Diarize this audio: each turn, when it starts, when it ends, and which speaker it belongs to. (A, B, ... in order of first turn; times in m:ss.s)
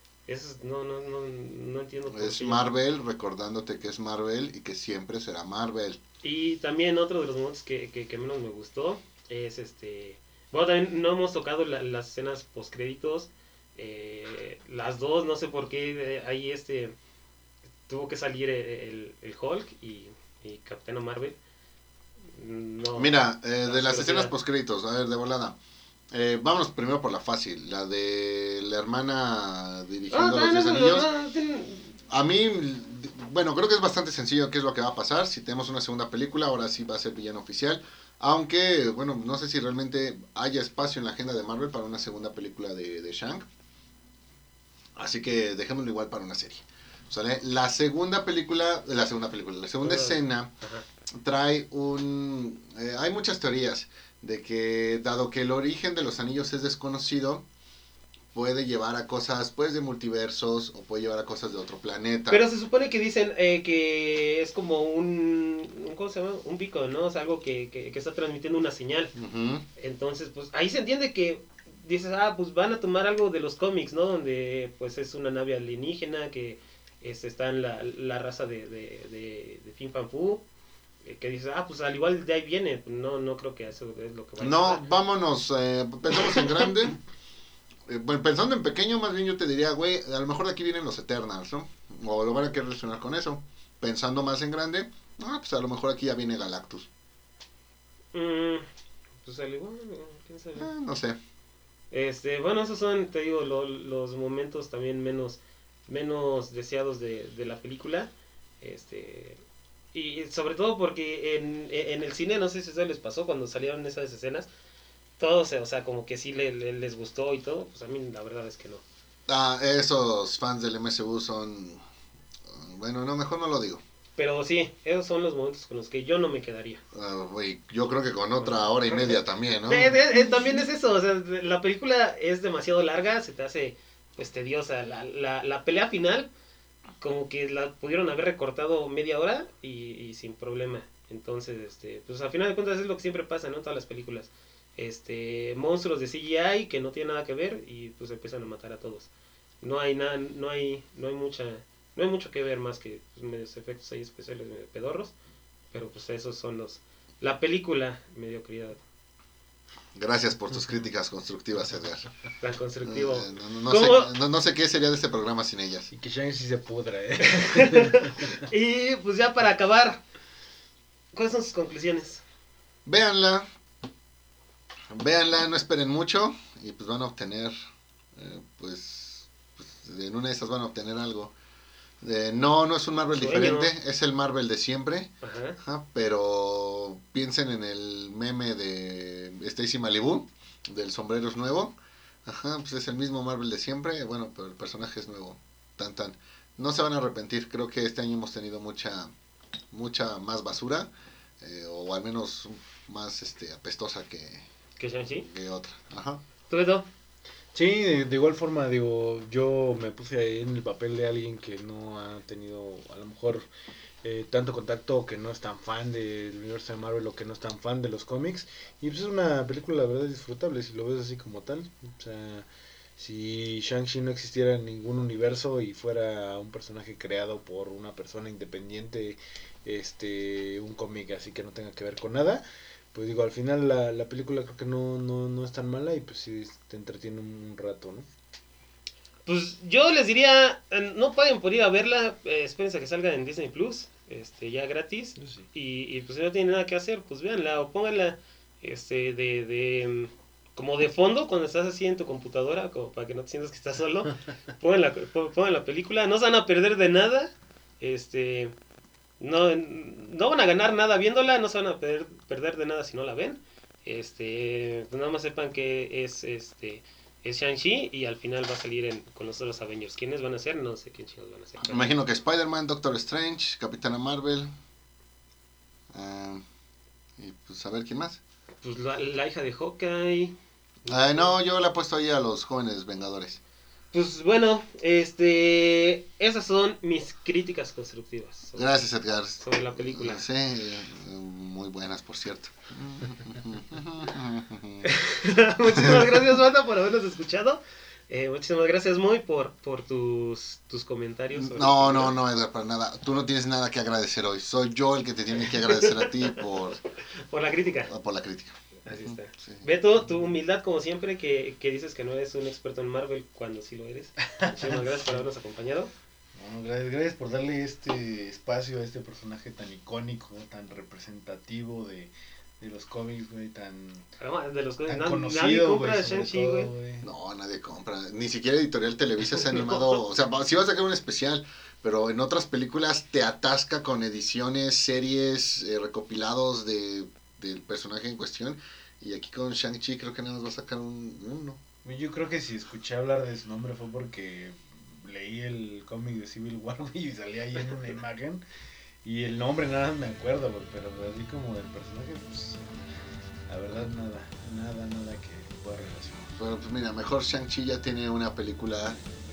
0:00.3-0:02.7 A
0:02.1-0:06.0 B
0:06.2-0:16.9 A
0:17.9-0:21.4 A
0:22.3-0:24.3 A
0:22.9-0:25.6 B
0:26.1-0:31.1 B
0:30.1-0:31.9 A
0:32.1-0:43.5 B
0:45.0-0:50.5 B
0:49.8-0:50.8 A
0:51.2-0:57.4 B
0:58.3-1:02.4 B
1:02.3-1:09.1 A
1:09.1-1:09.6 B
1:09.8-1:20.4 A
1:21.0-1:24.8 A
1:24.4-1:27.0 B
1:27.9-1:36.9 B
1:38.1-1:38.6 A
1:39.2-1:40.7 A
1:40.6-1:41.2 B
1:41.9-1:48.1 A
1:48.6-1:49.4 A
1:49.9-1:54.5 A
1:55.2-1:58.8 A
1:59.3-2:01.8 B
2:02.5-2:03.8 B
2:04.2-2:06.8 A
2:06.9-2:10.0 B
2:08.4-2:09.2 A
2:09.7-2:16.3 A
2:17.0-2:29.1 A
2:29.6-2:35.1 A
2:35.7-2:38.8 A
2:39.9-2:42.1 B
2:42.4-2:44.1 A
2:42.8-2:45.9 B
2:45.9-2:48.4 C
2:47.3-2:50.0 A
2:51.1-2:52.2 A
2:52.8-2:53.5 B
2:54.9-2:57.5 B
2:58.1-3:01.3 B
3:02.0-3:11.7 B
3:03.1-3:03.7 A
3:05.2-3:05.6 A
3:12.2-3:19.1 B
3:19.7-3:24.5 B
3:24.8-3:25.3 A
3:25.2-3:26.2 B
3:26.5-3:26.9 A
3:27.5-3:33.5 C
3:34.0-3:52.4 C
3:52.9-3:58.1 C
3:59.2-4:18.5 A
4:05.2-4:05.5 C
4:19.2-4:31.9 A
4:31.6-4:34.5 B
4:35.9-4:36.4 B
4:37.2-4:38.2 B
4:38.6-4:41.3 A
4:40.9-4:43.4 B
4:43.9-4:48.7 A
4:48.6-4:54.9 B
4:49.4-4:50.2 A
4:54.8-5:02.2 A
4:55.8-4:56.0 B
5:01.3-5:06.8 B
5:05.5-5:06.4 A
5:07.3-5:07.9 A
5:07.9-5:09.7 B
5:08.8-5:15.9 A
5:16.4-5:24.0 C
5:24.2-5:26.7 A
5:24.9-5:27.0 C
5:27.0-5:41.6 B
5:29.4-5:30.0 A
5:41.8-5:48.4 C
5:49.0-5:52.7 C
5:53.5-5:56.3 C
5:56.4-5:59.0 B